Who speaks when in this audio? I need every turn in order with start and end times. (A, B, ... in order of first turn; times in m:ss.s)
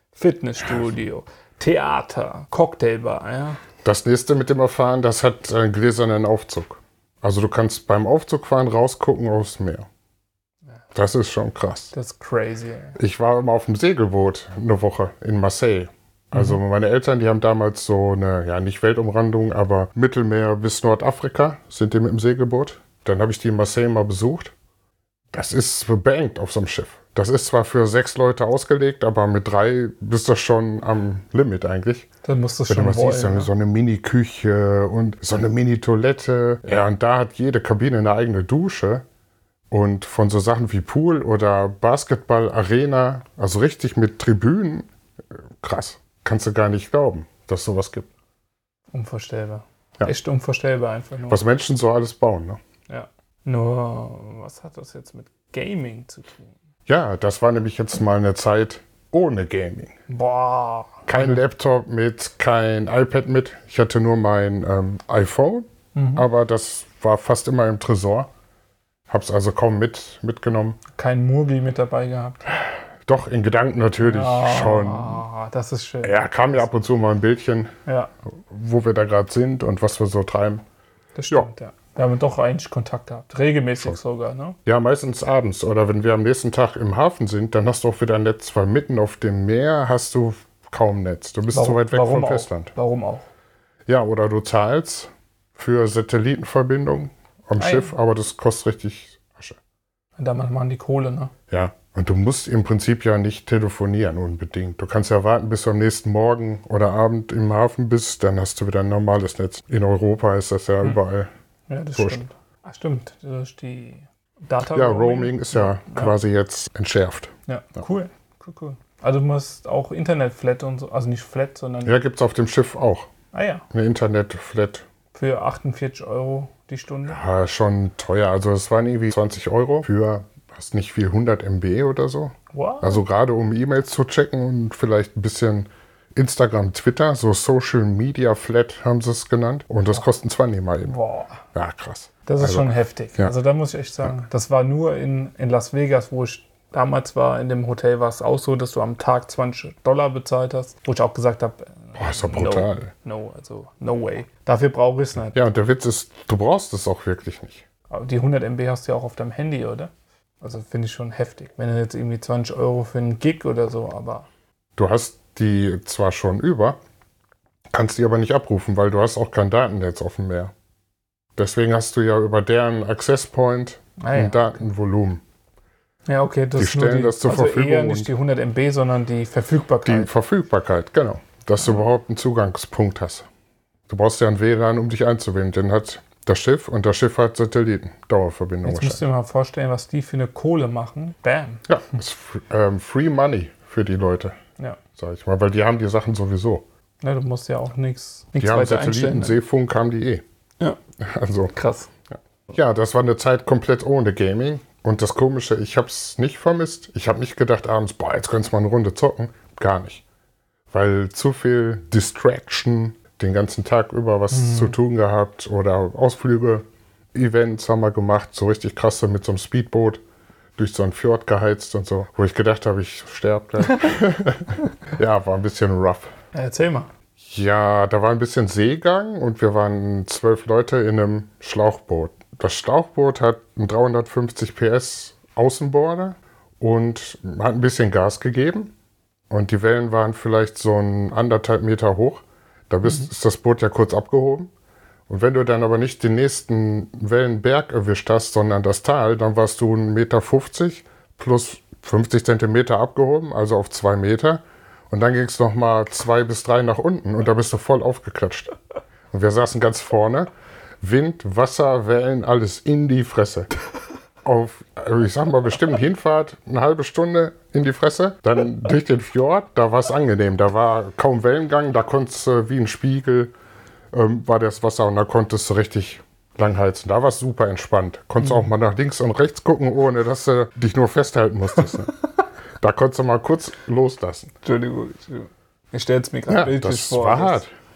0:00.1-0:03.6 A
0:03.8-0:09.8 B
0:10.9-0:11.9 B
0:11.9-0:13.0 A
0:13.0-0:24.5 B
0:16.3-0:16.6 A
0:25.3-0:32.1 B
0:32.2-0:33.5 A
0:32.7-0:39.0 B
0:39.7-0:48.1 B
0:48.9-0:51.4 A
0:51.3-0:52.6 B
0:52.9-0:56.5 A
0:56.9-0:59.9 B
1:00.1-1:01.4 A
1:01.1-1:08.3 B
1:05.9-1:06.2 A
1:09.1-1:10.8 B
1:11.0-1:12.4 A
1:13.0-1:15.2 B
1:14.0-1:16.6 A
1:16.0-1:17.7 B
1:17.8-1:18.1 A
1:18.3-1:20.6 B
1:21.2-1:24.6 A
1:24.6-1:32.7 B
1:31.5-1:33.3 A
1:33.9-1:39.6 B
1:37.6-1:37.9 A
1:40.2-1:41.3 A
1:41.5-1:51.3 B
1:51.7-1:56.1 A
1:51.9-1:52.2 B
1:54.7-1:57.3 B
1:57.5-2:02.0 A
2:01.8-2:03.1 B
2:03.3-2:03.6 A
2:03.7-2:04.8 B
2:05.1-2:07.2 A
2:07.1-2:21.0 B
2:12.5-2:13.0 A
2:20.8-2:21.4 A
2:21.5-2:23.3 B
2:22.2-2:35.4 A
2:32.0-2:32.9 B
2:35.3-2:37.6 B
2:37.9-2:44.3 A
2:44.8-2:46.8 B
2:47.7-2:50.5 B
2:51.4-2:55.2 B
2:54.0-2:54.6 A
2:56.1-3:00.1 A
2:56.6-2:58.1 B
2:59.8-3:03.3 B
3:03.9-3:09.0 B
3:08.6-3:11.6 A
3:11.7-3:14.4 B
3:15.0-3:16.6 B
3:17.0-3:19.4 A
3:18.4-3:20.2 B
3:21.0-3:21.5 B
3:21.5-3:21.9 A
3:22.5-3:30.0 B
3:30.7-3:40.0 B
3:34.3-3:34.8 A
3:40.6-3:46.1 B
3:46.3-3:46.9 A
3:47.2-3:58.7 B
3:59.3-4:04.5 B
4:05.1-4:18.5 B
4:19.1-4:20.3 B
4:20.8-4:23.5 B
4:24.2-4:33.3 B
4:33.9-4:41.9 B
4:38.2-4:38.5 A
4:42.6-4:44.3 B
4:44.4-4:47.4 A
4:46.3-4:47.5 B